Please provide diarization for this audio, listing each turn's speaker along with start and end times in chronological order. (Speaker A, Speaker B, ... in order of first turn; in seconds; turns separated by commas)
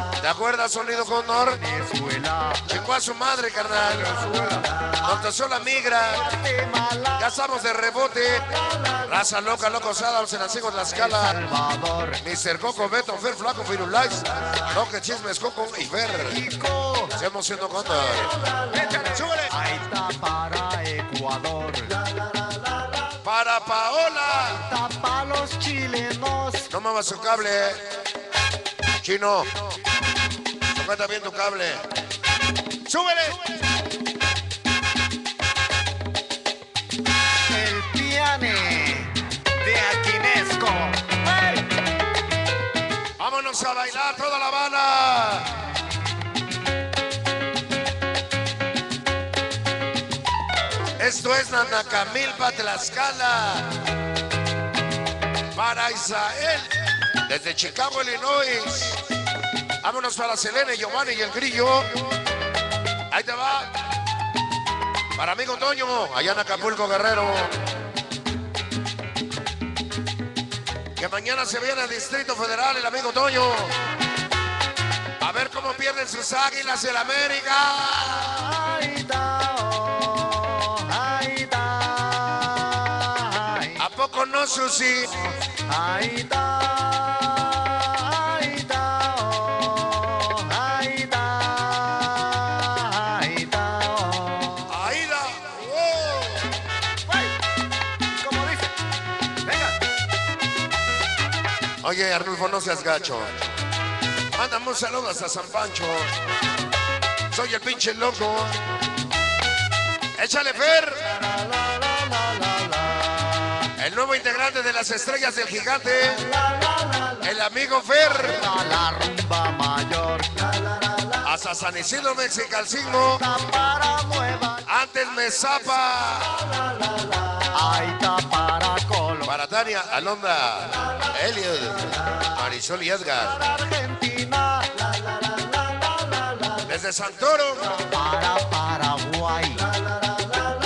Speaker A: 0.2-1.6, Speaker B: 1.6-2.6, Speaker A: 2.7-4.4, Speaker B: 4.4-4.6, Speaker A: 5.0-6.2, Speaker B: 6.1-7.3, Speaker A: 7.2-8.5, Speaker A: 9.0-11.4, Speaker B: 10.9-12.2, Speaker A: 12.2-16.4, Speaker B: 16.2-17.1, Speaker A: 17.1-19.5, Speaker B: 18.9-22.0, Speaker A: 23.2-24.6, Speaker B: 24.5-26.7, Speaker A: 26.7-27.9, Speaker A: 29.0-29.5, Speaker A: 30.7-31.8, Speaker A: 32.9-33.4, Speaker B: 37.5-41.6, Speaker A: 43.2-45.5, Speaker A: 51.0-53.7, Speaker A: 55.5-56.7, Speaker A: 57.2-59.0, Speaker A: 59.8-62.0, Speaker A: 63.1-63.7, Speaker A: 65.2-67.5, Speaker A: 71.0-73.7, Speaker A: 75.2-78.4, Speaker B: 78.4-83.8, Speaker A: 83.8-85.2, Speaker B: 85.2-94.7, Speaker A: 94.7-96.5, Speaker B: 97.1-97.3, Speaker B: 98.2-98.7, Speaker B: 99.4-99.8, Speaker A: 101.8-103.3, Speaker A: 104.4-106.1, Speaker A: 107.3-108.6, Speaker A: 110.2-111.1, Speaker B: 111.2-113.7, Speaker A: 113.8-116.2, Speaker A: 117.2-118.4, Speaker B: 118.1-120.5, Speaker A: 121.2-123.2, Speaker B: 123.0-124.6, Speaker A: 124.6-126.4, Speaker B: 127.5-129.3, Speaker A: 129.2-133.4, Speaker B: 133.2-134.8, Speaker A: 136.7-137.7, Speaker B: 137.7-139.7